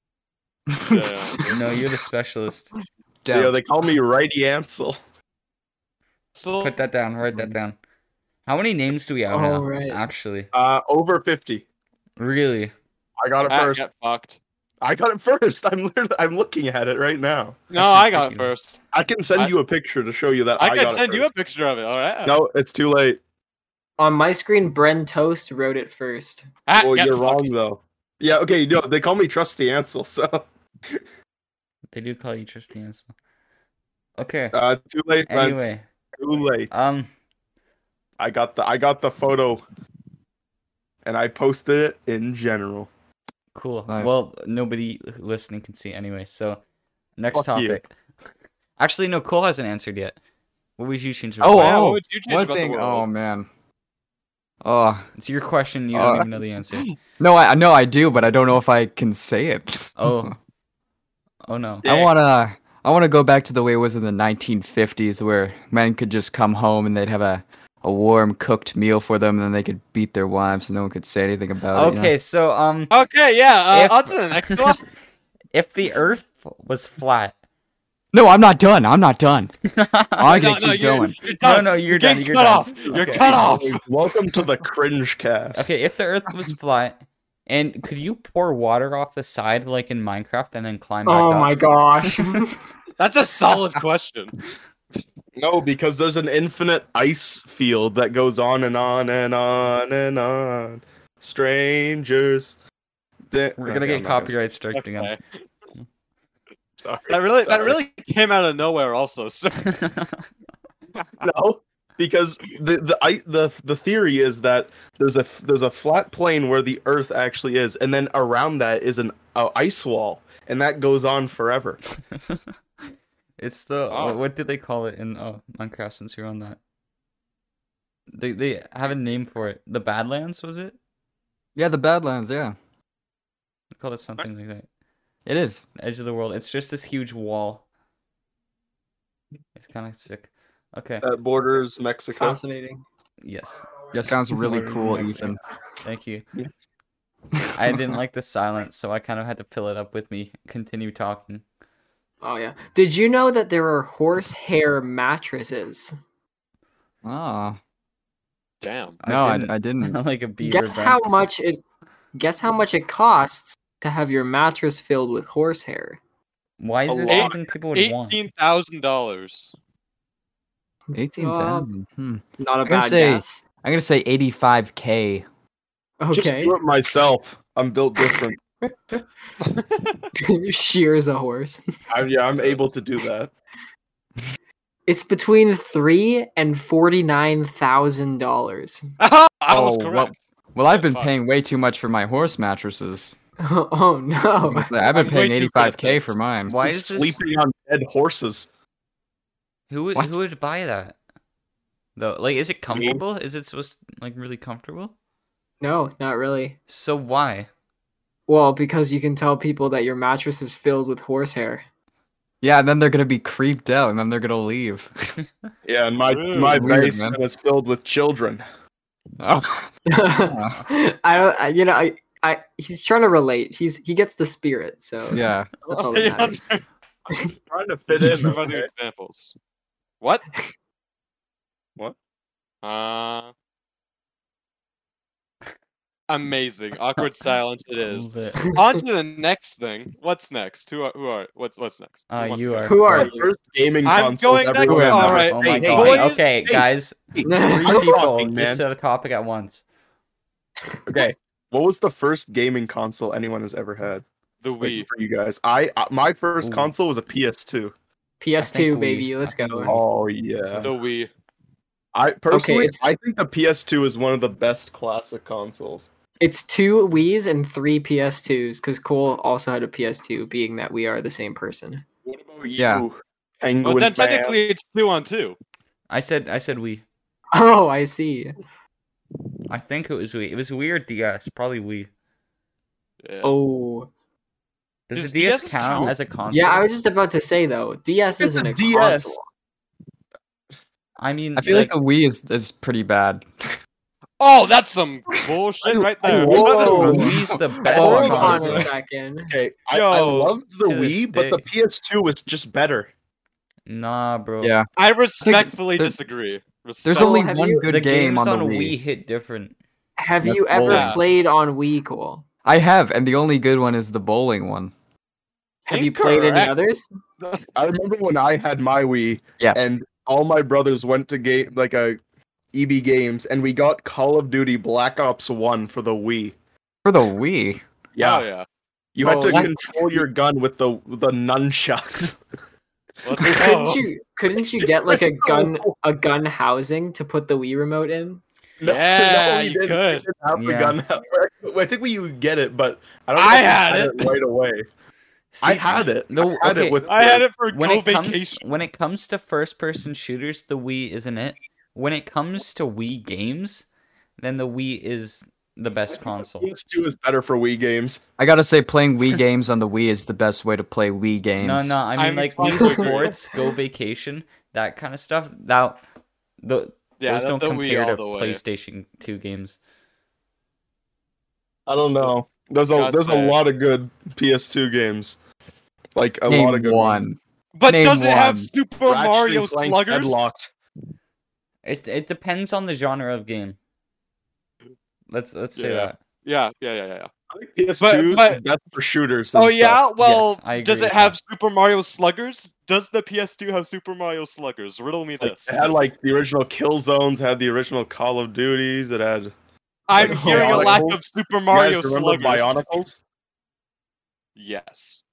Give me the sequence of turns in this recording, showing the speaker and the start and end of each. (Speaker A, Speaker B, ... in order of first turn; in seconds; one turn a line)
Speaker A: 0.7-1.1
Speaker B: 0.8-1.6
Speaker C: 1.5-2.7
Speaker A: 3.2-3.5
Speaker D: 3.3-5.0
Speaker B: 6.3-6.8
Speaker C: 6.6-7.8
Speaker A: 7.3-7.6
Speaker C: 8.5-10.5
Speaker E: 9.3-10.0
Speaker D: 10.5-11.6
Speaker C: 12.2-12.7
Speaker D: 13.2-13.8
Speaker B: 13.5-14.4
Speaker D: 14.8-17.6
Speaker B: 17.7-18.8
Speaker C: 17.8-18.5
Speaker D: 18.9-21.3
Speaker B: 20.6-22.4
Speaker D: 22.2-23.2
Speaker E: 24.0-26.5
Speaker B: 26.7-27.5
Speaker D: 26.8-30.4
Speaker C: 31.9-33.1
Speaker C: 34.2-34.5
Speaker D: 34.5-36.9
Speaker C: 35.3-35.8
Speaker C: 36.7-37.1
Speaker D: 38.2-39.6
Speaker D: 41.0-42.9
Speaker C: 43.5-46.6
Speaker C: 47.2-47.9
Speaker D: 47.3-47.8
Speaker C: 48.8-50.2
Speaker C: 50.8-51.8
Speaker A: 51.4-53.5
Speaker B: 51.5-53.1
Speaker A: 54.6-55.1
Speaker C: 55.2-56.9
Speaker A: 55.9-60.3
Speaker C: 60.0-60.4
Speaker C: 61.4-61.9
Speaker A: 61.8-72.1
Speaker C: 71.7-72.9
Speaker B: 72.9-74.8
Speaker C: 73.7-74.8
Speaker C: 75.5-77.3
Speaker A: 78.1-79.5
Speaker C: 79.7-80.6
Speaker A: 80.2-81.2
Speaker B: 80.3-83.8
Speaker C: 81.2-83.4
Speaker D: 82.9-85.7
Speaker C: 85.5-92.3
Speaker E: 91.1-92.6
Speaker B: 93.0-94.4
Speaker D: 95.4-102.6
Speaker D: 103.3-104.4
Speaker C: 103.6-105.1
Speaker B: 104.7-105.2
Speaker D: 106.8-107.8
Speaker B: 107.1-109.7
Speaker C: 109.7-110.2
Speaker D: 111.2-121.8
Speaker C: 122.1-122.4
Speaker C: 123.4-126.6
Speaker B: 123.9-124.2
Speaker C: 128.1-130.8
Speaker A: 131.6-132.6
Speaker C: 133.8-134.7
Speaker A: 135.3-135.7
Speaker C: 135.8-137.6
Speaker C: 139.6-141.0
Speaker D: 141.0-142.4
Speaker E: 142.2-142.8
Speaker C: 143.2-143.6
Speaker A: 143.9-145.4
Speaker D: 144.4-145.3
Speaker C: 145.8-146.2
Speaker D: 146.3-146.6
Speaker A: 147.4-147.9
Speaker C: 147.5-151.4
Speaker E: 152.2-155.9
Speaker A: 157.0-157.6
Speaker B: 158.6-159.0
Speaker C: 159.0-161.0
Speaker A: 159.0-160.0
Speaker E: 160.4-161.6
Speaker E: 162.2-166.0
Speaker C: 166.6-168.2
Speaker D: 166.9-167.4
Speaker B: 167.1-169.5
Speaker A: 170.9-175.3
Speaker E: 171.2-171.7
Speaker E: 172.4-173.4
Speaker E: 176.0-176.6
Speaker D: 176.1-178.4
Speaker E: 178.7-179.0
Speaker B: 179.4-180.1
Speaker E: 180.2-181.6
Speaker D: 181.9-183.3
Speaker E: 184.9-188.8
Speaker B: 189.0-190.2
Speaker A: 189.5-193.1
Speaker B: 190.7-191.2
Speaker E: 193.4-194.7
Speaker A: 194.5-196.6
Speaker B: 194.9-196.2
Speaker C: 196.5-197.2
Speaker D: 196.6-198.5
Speaker C: 199.7-201.0
Speaker C: 202.0-204.9
Speaker D: 202.7-203.0
Speaker E: 205.6-206.6
Speaker C: 206.7-207.5
Speaker E: 208.3-211.6
Speaker A: 212.4-214.9
Speaker D: 215.7-218.4
Speaker B: 216.1-216.7
Speaker A: 216.4-217.2
Speaker A: 219.2-220.6
Speaker E: 219.9-226.4
Speaker A: 225.1-225.5
Speaker B: 225.7-226.6
Speaker D: 227.5-228.7
Speaker B: 227.9-229.3
Speaker B: 232.6-233.3
Speaker B: 236.1-242.8
Speaker C: 237.8-238.5
Speaker C: 242.1-243.1
Speaker E: 242.7-243.3
Speaker D: 242.9-248.6
Speaker B: 243.9-246.2
Speaker A: 244.7-245.2
Speaker C: 244.8-249.6
Speaker E: 247.2-248.0
Speaker D: 250.9-254.1
Speaker B: 254.4-254.9
Speaker D: 254.6-257.7
Speaker C: 256.4-256.7
Speaker E: 258.2-259.8
Speaker C: 258.4-259.8
Speaker D: 259.6-260.7
Speaker B: 260.6-261.1
Speaker D: 261.9-265.9
Speaker E: 262.3-262.8
Speaker E: 266.2-271.9
Speaker D: 272.1-274.4
Speaker A: 272.6-272.9
Speaker B: 273.6-275.4
Speaker C: 275.9-276.9
Speaker E: 277.3-278.4
Speaker C: 279.5-281.9
Speaker B: 283.0-283.4
Speaker E: 283.2-283.9
Speaker C: 284.9-286.7
Speaker B: 284.9-285.9
Speaker E: 286.3-289.2
Speaker D: 288.2-289.2
Speaker C: 291.0-291.7
Speaker A: 291.4-293.6
Speaker B: 294.2-296.9
Speaker D: 295.6-298.7
Speaker E: 296.1-299.4
Speaker C: 296.4-298.7
Speaker A: 297.0-297.4
Speaker D: 299.3-302.9
Speaker B: 299.7-300.3
Speaker C: 300.6-301.4
Speaker C: 303.7-304.6
Speaker A: 304.4-304.7
Speaker B: 304.8-307.2
Speaker A: 305.2-306.0
Speaker A: 306.8-308.8
Speaker E: 306.9-307.7
Speaker C: 307.6-309.6
Speaker E: 310.0-312.2
Speaker D: 310.3-311.0
Speaker B: 310.6-311.0
Speaker A: 312.4-314.7
Speaker B: 315.7-316.6
Speaker E: 315.7-316.9
Speaker B: 317.2-317.5
Speaker D: 317.6-322.0
Speaker A: 319.4-319.7
Speaker D: 322.5-326.3
Speaker A: 326.8-327.6
Speaker D: 327.9-328.3
Speaker B: 328.0-328.4
Speaker D: 328.9-332.2
Speaker E: 329.0-329.6
Speaker B: 333.0-333.9
Speaker D: 333.1-333.5
Speaker E: 333.3-338.2
Speaker D: 334.6-335.8
Speaker D: 338.6-344.7
Speaker B: 338.6-340.1
Speaker C: 340.4-340.8
Speaker B: 343.2-344.1
Speaker C: 345.3-346.8
Speaker D: 345.4-347.3
Speaker B: 346.9-348.4
Speaker C: 347.5-353.6
Speaker C: 354.2-356.5
Speaker D: 356.4-358.0
Speaker A: 358.2-361.8
Speaker C: 361.4-365.8
Speaker B: 362.0-363.1
Speaker C: 366.4-369.6
Speaker B: 367.0-368.4
Speaker D: 371.7-375.2
Speaker B: 371.8-372.1
Speaker B: 372.7-373.4
Speaker D: 376.0-377.1
Speaker A: 376.3-378.5
Speaker B: 377.6-380.2
Speaker D: 378.9-380.5
Speaker C: 381.6-383.6
Speaker C: 385.1-386.0
Speaker B: 385.6-387.1
Speaker D: 387.3-389.8
Speaker B: 387.8-388.4
Speaker B: 389.4-395.7
Speaker C: 390.0-391.1
Speaker D: 395.2-399.3
Speaker B: 399.9-402.8
Speaker E: 400.0-400.8
Speaker D: 400.0-401.0
Speaker D: 401.5-403.0
Speaker B: 404.4-405.0